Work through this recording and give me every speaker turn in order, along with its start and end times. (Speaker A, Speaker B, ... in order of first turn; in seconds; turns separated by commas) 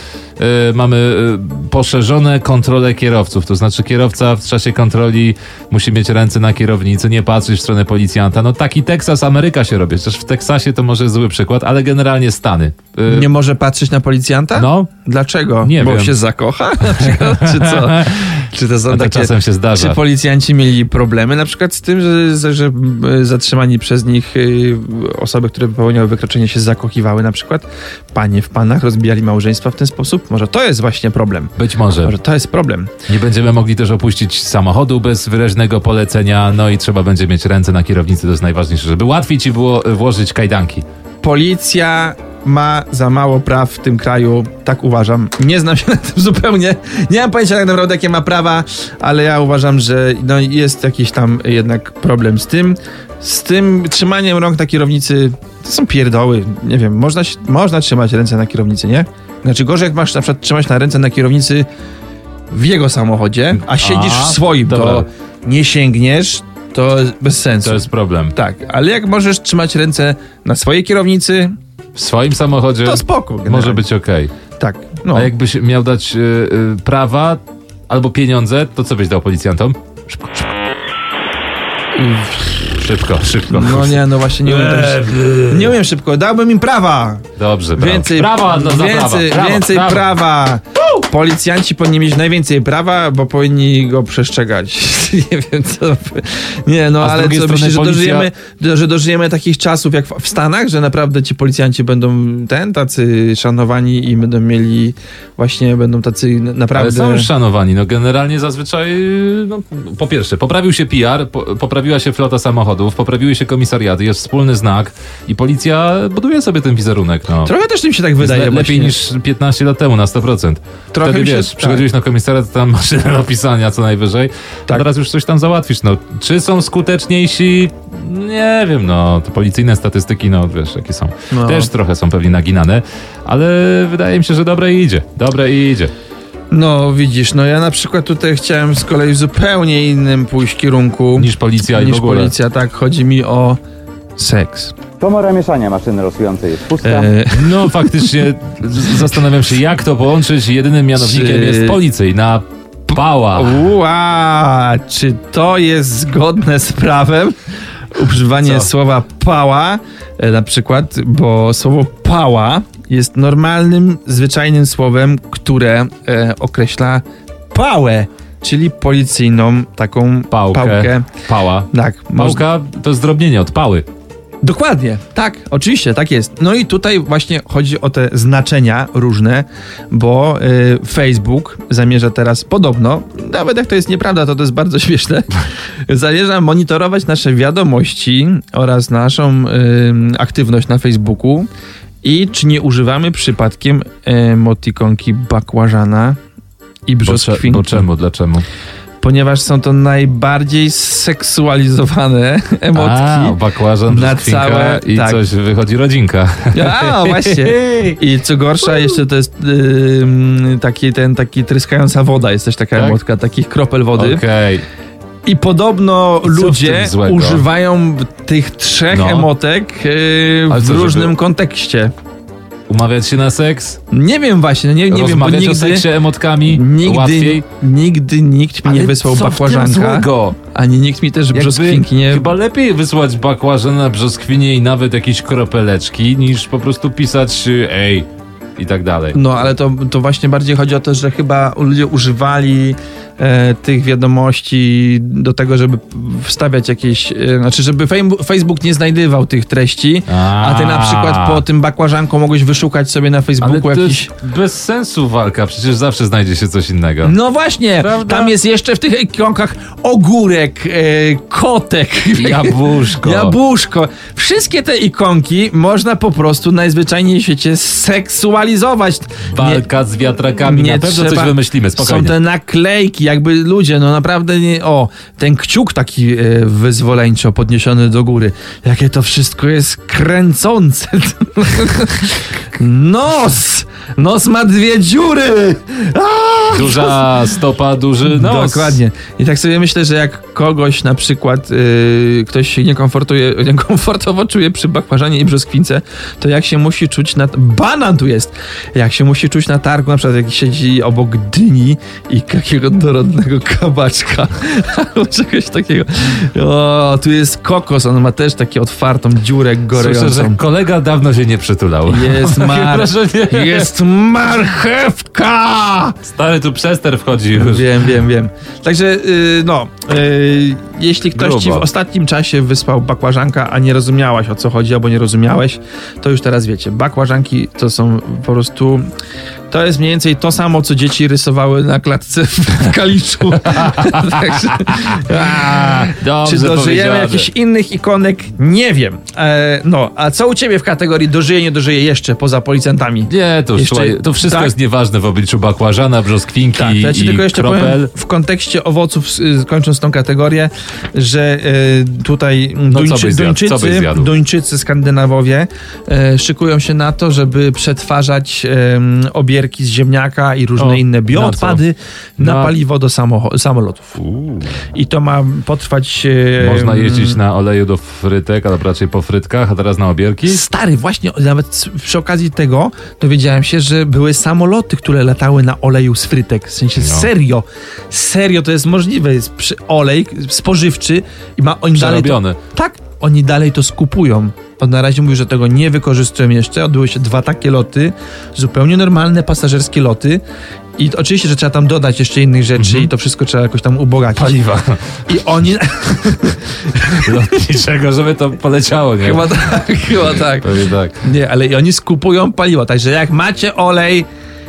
Speaker A: 0.4-13.3, Speaker B: 13.1-32.9, Speaker A: 14.5-14.9, Speaker A: 15.6-16.2, Speaker A: 16.9-18.3, Speaker A: 18.9-20.0, Speaker A: 31.6-32.1, Speaker A: 33.1-40.8, Speaker B: 41.2-61.7, Speaker B: 62.5-71.5, Speaker A: 63.6-65.0, Speaker A: 67.6-68.3, Speaker A: 71.9-74.3, Speaker B: 72.8-73.8, Speaker B: 74.6-75.3, Speaker A: 75.1-80.6, Speaker B: 81.9-82.7, Speaker A: 82.6-85.7, Speaker B: 83.5-107.3, Speaker A: 87.4-90.1, Speaker A: 97.0-98.3, Speaker A: 106.7-117.5, Speaker B: 117.4-118.9, Speaker A: 118.2-135.9, Speaker B: 120.9-121.8, Speaker B: 131.3-131.7, Speaker B: 136.5-143.6, Speaker A: 141.2-142.3, Speaker B: 144.2-144.7, Speaker C: 145.0-147.1, Speaker B: 146.8-148.2, Speaker A: 147.3-153.7, Speaker B: 151.0-151.8, Speaker B: 152.9-157.4, Speaker B: 157.9-171.1, Speaker A: 158.4-158.7, Speaker A: 170.3-173.8, Speaker B: 171.7-172.4, Speaker B: 174.4-185.4, Speaker B: 185.9-191.5, Speaker B: 192.0-196.2, Speaker B: 196.9-197.9, Speaker A: 197.0-198.4, Speaker B: 199.0-205.2, Speaker A: 202.7-208.0, Speaker B: 206.5-214.2, Speaker A: 208.6-209.0, Speaker A: 212.7-213.0, Speaker A: 213.9-214.6, Speaker B: 215.3-221.9, Speaker A: 216.2-217.4, Speaker A: 218.9-219.3, Speaker A: 220.5-221.1, Speaker A: 222.7-223.8, Speaker B: 223.9-225.9, Speaker A: 224.9-227.4, Speaker B: 226.4-232.3, Speaker A: 228.6-230.4, Speaker A: 231.3-239.2, Speaker B: 239.1-254.1, Speaker A: 250.1-251.4, Speaker A: 253.4-257.1, Speaker B: 257.0-269.6, Speaker A: 257.8-258.3, Speaker A: 262.1-263.3, Speaker A: 269.3-272.2, Speaker B: 270.4-287.3, Speaker A: 286.5-288.8, Speaker B: 288.0-310.4, Speaker A: 309.7-313.7, Speaker B: 311.9-315.9, Speaker A: 316.0-317.8, Speaker B: 317.3-328.9, Speaker A: 321.1-321.7, Speaker B: 329.5-344.5, Speaker A: 333.4-337.3, Speaker A: 343.1-347.9, Speaker B: 346.6-364.0, Speaker A: 352.7-354.1, Speaker A: 360.6-361.6, Speaker A: 362.2-362.5, Speaker A: 364.0-364.6, Speaker B: 364.7-367.2, Speaker A: 366.4-370.5, Speaker B: 370.2-390.2, Speaker A: 376.8-377.1, Speaker A: 381.7-382.4, Speaker B: 390.8-394.4, Speaker A: 392.6-392.9, Speaker A: 394.1-395.0, Speaker B: 395.1-397.2, Speaker A: 396.9-399.4, Speaker B: 399.0-404.1, Speaker A: 399.9-401.0